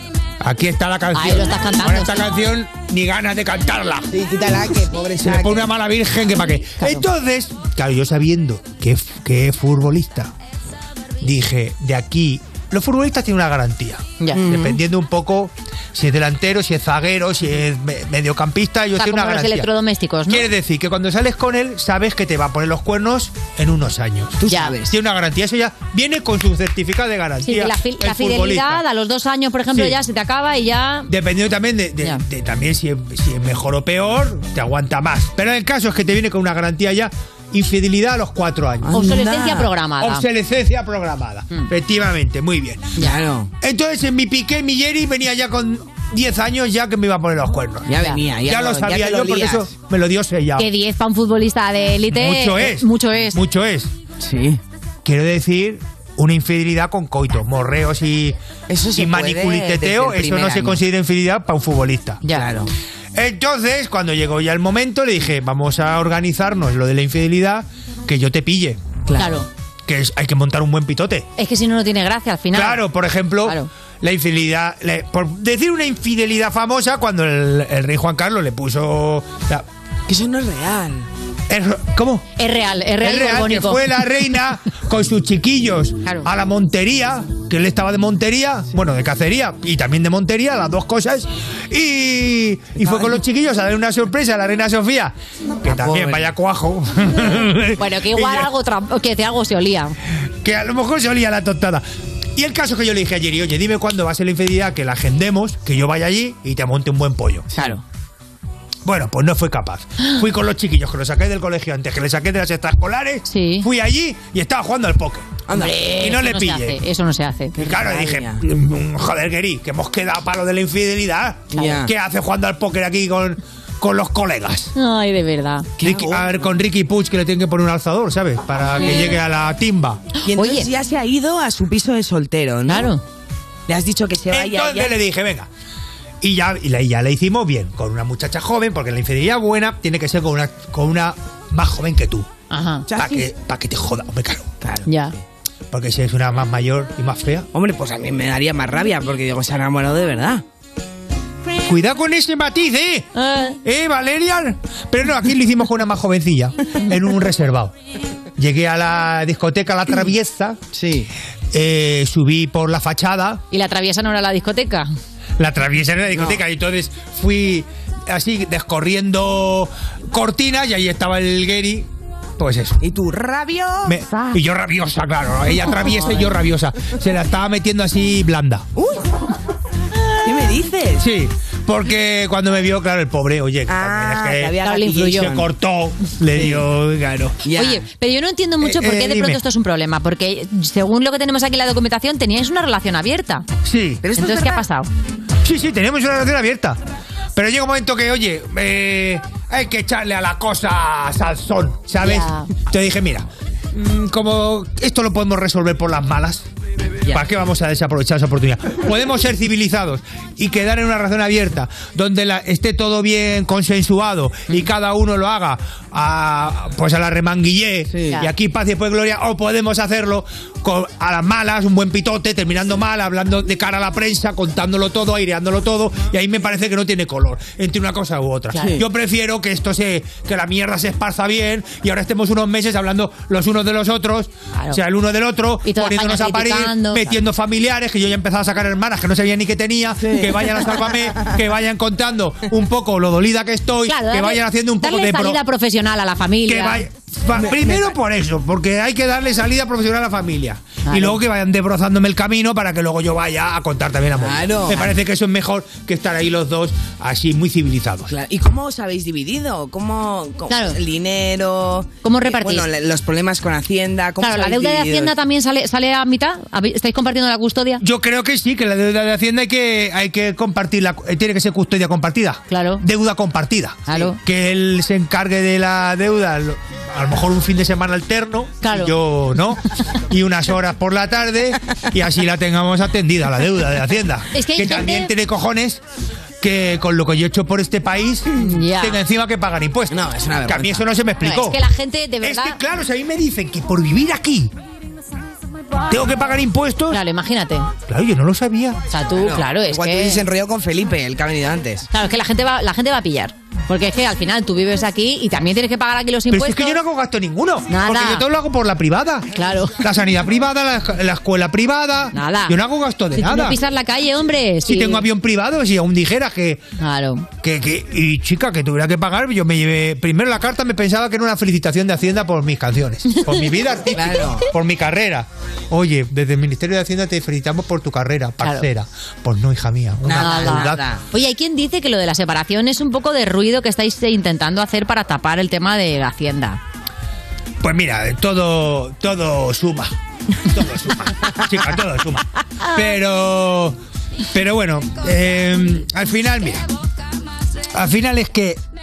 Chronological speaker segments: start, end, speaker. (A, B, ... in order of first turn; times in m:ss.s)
0:00.4-0:04.1 A
0:01.1-0:02.2 B
0:04.1-0:05.7 C
0:05.2-0:10.3 A
0:06.8-0:07.0 B
0:11.2-0:19.7 A
0:14.3-0:14.8 C
0:19.0-0:20.5 B
0:20.3-0:28.8 A
0:24.4-0:24.9 C
0:24.4-0:24.8 B
0:27.4-0:31.1 B
0:29.7-0:30.0 A
0:31.1-0:39.0 A
0:38.8-0:39.7 C
0:38.9-0:40.2 B
0:40.0-0:42.9 A
0:43.0-0:43.5 C
0:43.6-0:50.7 A
0:47.8-0:49.7 C
0:50.6-0:53.4 B
0:52.1-0:53.9 A
0:54.2-0:54.6 C
0:55.0-0:58.4 A
0:58.7-1:00.8 C
0:58.9-1:02.2 A
1:02.3-1:02.7 C
1:03.1-1:08.8 A
1:09.0-1:09.4 C
1:09.2-1:09.5 B
1:09.9-1:11.3 A
1:11.4-1:12.8 B
1:12.5-1:19.6 A
1:20.1-1:21.1 C
1:21.5-1:22.2 A
1:22.4-1:24.0 B
1:23.0-1:38.5 A
1:35.6-1:36.3 C
1:37.7-1:39.9 B
1:40.4-1:41.8 A
1:42.4-1:47.5 A
1:47.5-1:47.8 C
1:47.5-1:47.8 B
1:48.8-1:56.8 A
1:53.2-1:53.7 B
1:55.5-1:56.2 C
1:55.5-1:57.6 B
1:57.6-1:58.4 C
1:57.6-2:04.7 A
2:01.5-2:01.9 C
2:01.5-2:01.8 B
2:04.7-2:05.7 B
2:05.8-2:06.6 C
2:05.8-2:10.0 A
2:10.2-2:12.9 C
2:10.3-2:10.7 B
2:12.7-2:13.0 B
2:13.7-2:15.0 C
2:14.3-2:15.5 A
2:16.2-2:22.3 A
2:22.5-2:22.9 B
2:22.9-2:23.2 C
2:23.0-2:24.5 A
2:24.6-2:25.0 C
2:24.8-2:25.1 B
2:25.7-2:27.5 A
2:27.5-2:30.4 C
2:31.6-2:33.1 A
2:33.1-2:33.6 B
2:33.6-2:37.7 A
2:38.4-2:40.6 A
2:40.7-2:41.1 C
2:41.5-2:43.4 A
2:43.5-2:44.9 B
2:45.4-2:51.9 A
2:46.1-2:46.4 C
2:52.4-2:52.8 A
2:52.8-2:54.4 C
2:53.8-2:58.7 A
2:55.8-2:56.4 C
2:58.8-2:59.0 C
3:00.2-3:01.1 C
3:01.0-3:04.6 A
3:03.7-3:05.5 C
3:04.6-3:05.4 B
3:05.2-3:07.4 A
3:06.3-3:06.6 C
3:07.4-3:07.8 C
3:07.5-3:13.4 B
3:08.6-3:09.4 A
3:13.6-3:14.0 A
3:14.0-3:14.6 C
3:14.2-3:14.9 B
3:15.4-3:16.8 A
3:17.4-3:26.5 A
3:22.0-3:22.5 B
3:27.1-4:05.4 A
3:37.9-3:38.2 C
3:48.5-3:48.8 C
3:54.5-3:54.8 B
3:55.6-3:57.2 B
4:00.0-4:01.4 C
4:03.8-4:06.8 B
4:06.4-4:18.1 A
4:07.3-4:08.0 C
4:10.8-4:11.2 B
4:14.2-4:14.9 C
4:18.1-4:25.1 C
4:20.5-4:20.8 B
4:22.0-4:22.7 B
4:24.2-4:27.8 B
4:27.8-4:45.8 A
4:32.5-4:32.8 B
4:33.9-4:34.2 B
4:38.6-4:38.9 B
4:44.3-4:45.1 B
4:46.4-4:51.6 A
4:48.4-4:49.0 B
4:49.9-4:50.8 C
4:51.2-4:52.6 B
4:52.2-4:54.5 A
4:55.9-4:57.0 A
4:56.9-4:57.7 B
4:57.9-4:58.8 A
4:58.9-5:00.2 B
4:59.1-5:01.9 C
5:01.9-5:06.8 B
5:06.3-5:13.6 A
5:07.7-5:08.2 B
5:09.3-5:09.8 B
5:12.1-5:12.6 B
5:13.1-5:15.0 B
5:14.6-5:16.6 A
5:16.8-5:17.3 B
5:17.4-5:30.8 A
5:23.9-5:24.5 C
5:30.0-5:31.0 C
5:30.2-5:36.6 B
5:37.6-5:39.9 A
5:40.5-5:43.8 A
5:44.3-5:46.6 A
5:47.7-5:48.6 A